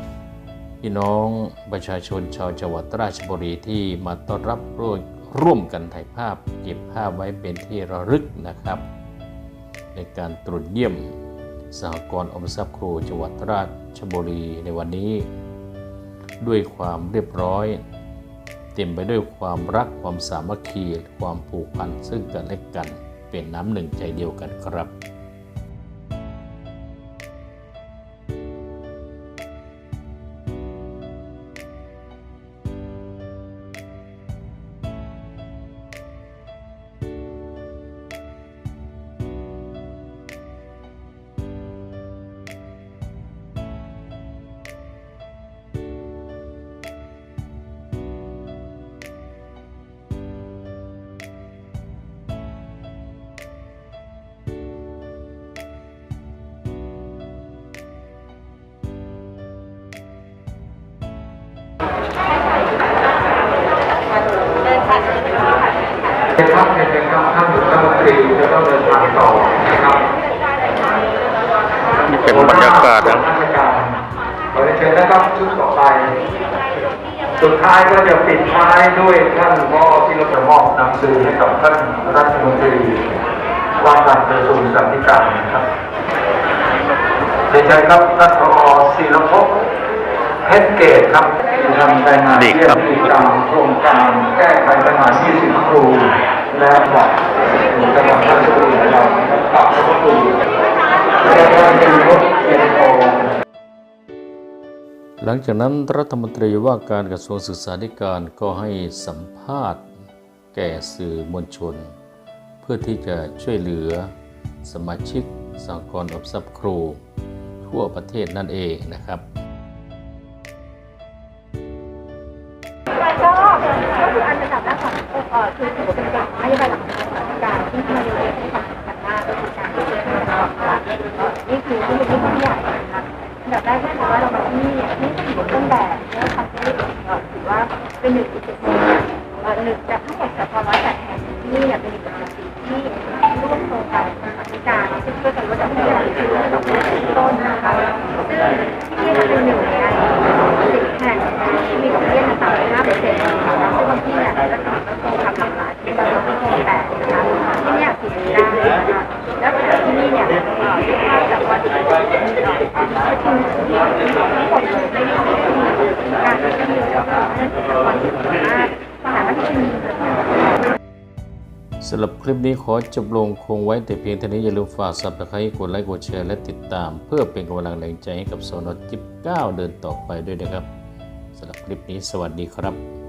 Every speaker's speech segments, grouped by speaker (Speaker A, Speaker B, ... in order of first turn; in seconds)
Speaker A: 0.8-8.8, 9.9-11.1, 11.7-15.3, 16.4-17.8, 18.8-24.9, 72.0-73.2, 92.3-92.8, 105.2-109.8, 110.5-111.9, 112.6-114.1, 114.6-117.0, 117.7-119.2, 171.8-180.7, 181.4-182.8
Speaker B: 66.4-70.1, 72.3-74.0, 74.5-76.2, 77.4-83.0, 83.8-85.7, 87.5-89.6, 90.4-100.4, 101.2-103.3
Speaker C: 123.3-123.6, 124.3-150.1, 150.7-161.9, 162.9-164.7, 165.7-168.6